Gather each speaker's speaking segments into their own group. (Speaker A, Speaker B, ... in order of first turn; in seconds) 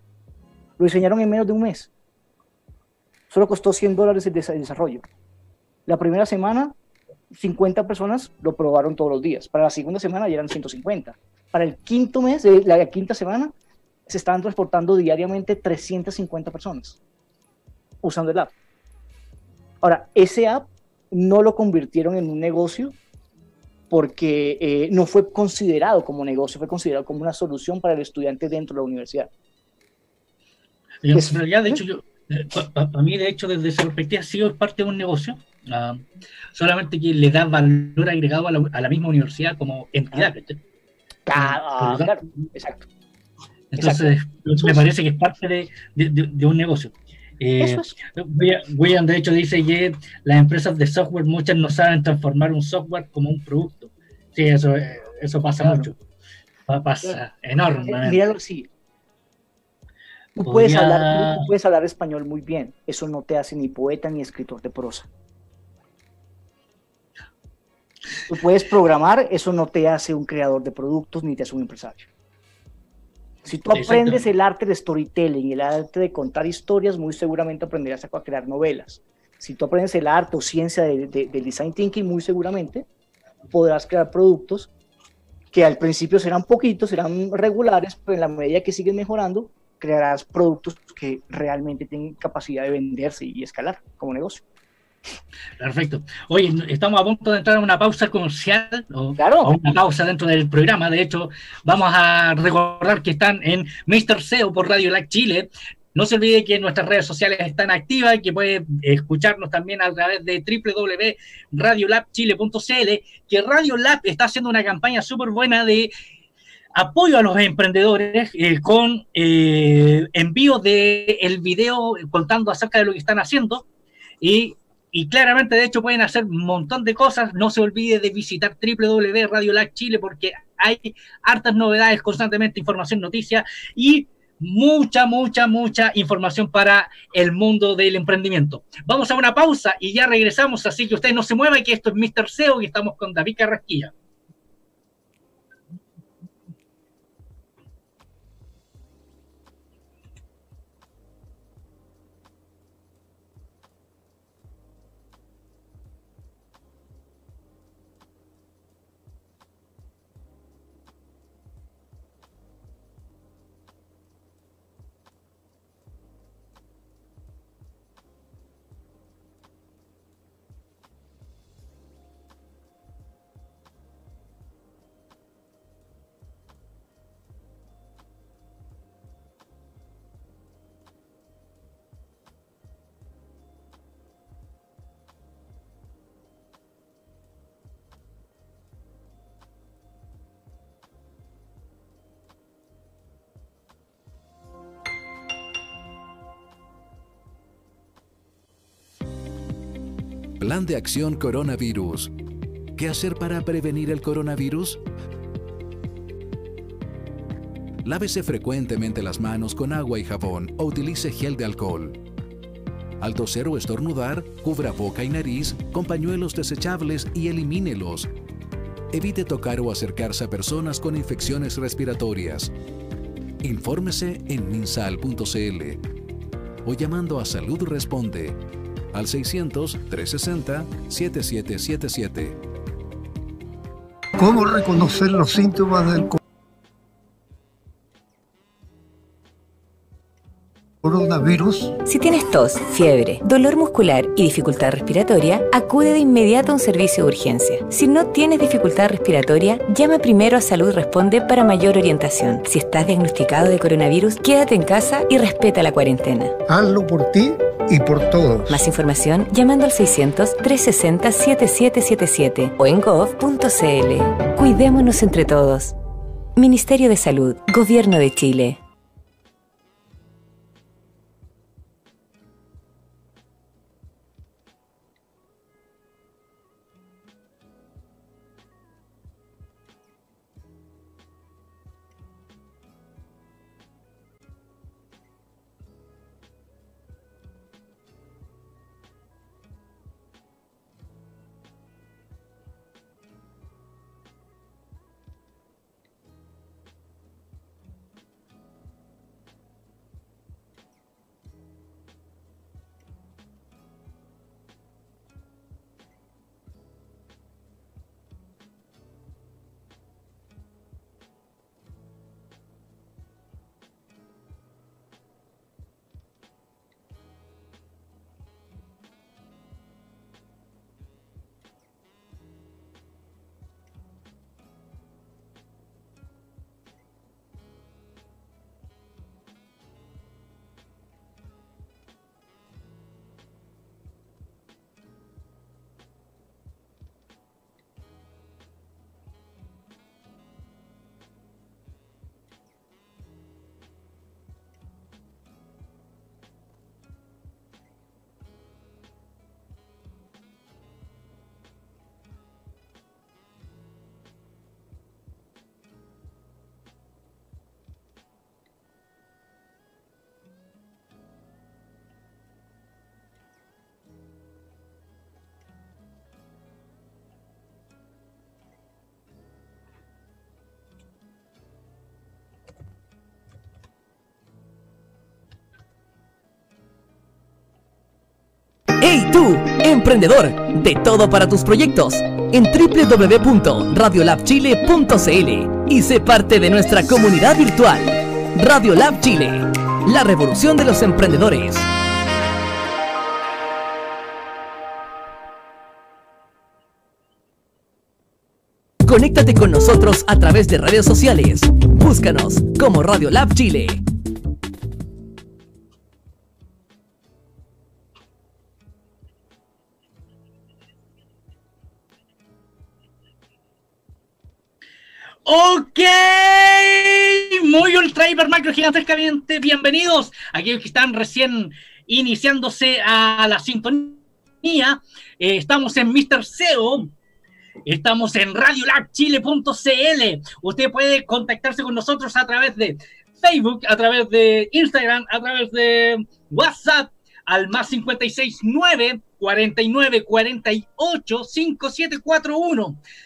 Speaker A: 0.8-1.9, 3.3-5.0, 5.8-6.7, 7.3-13.5, 14.1-17.0, 18.0-18.5, 19.8-23.0, 23.9-29.3, 31.1-31.8, 41.2-42.9, 43.8-44.8, 47.6-48.0, 55.6-55.9, 57.9-58.7, 60.4-65.1, 68.3-72.0, 73.5-82.8, 83.5-84.7, 85.5-94.4, 99.2-99.5
Speaker B: 31.0-40.6, 41.3-42.3, 43.7-56.0, 56.7-58.2, 60.4-61.5, 73.7-74.3, 95.6-115.9, 116.7-123.7, 124.2-143.9, 415.2-426.9, 427.6-442.8
Speaker C: 200.4-202.1, 202.7-204.8, 207.8-212.0, 213.0-218.1, 218.9-222.5, 223.4-225.8, 226.6-228.4, 228.9-232.4
Speaker D: 234.2-236.2, 240.8-241.8, 256.5-258.6
Speaker E: 241.8-256.4, 258.5-265.8, 266.4-268.6
Speaker F: 378.8-391.7, 398.8-403.8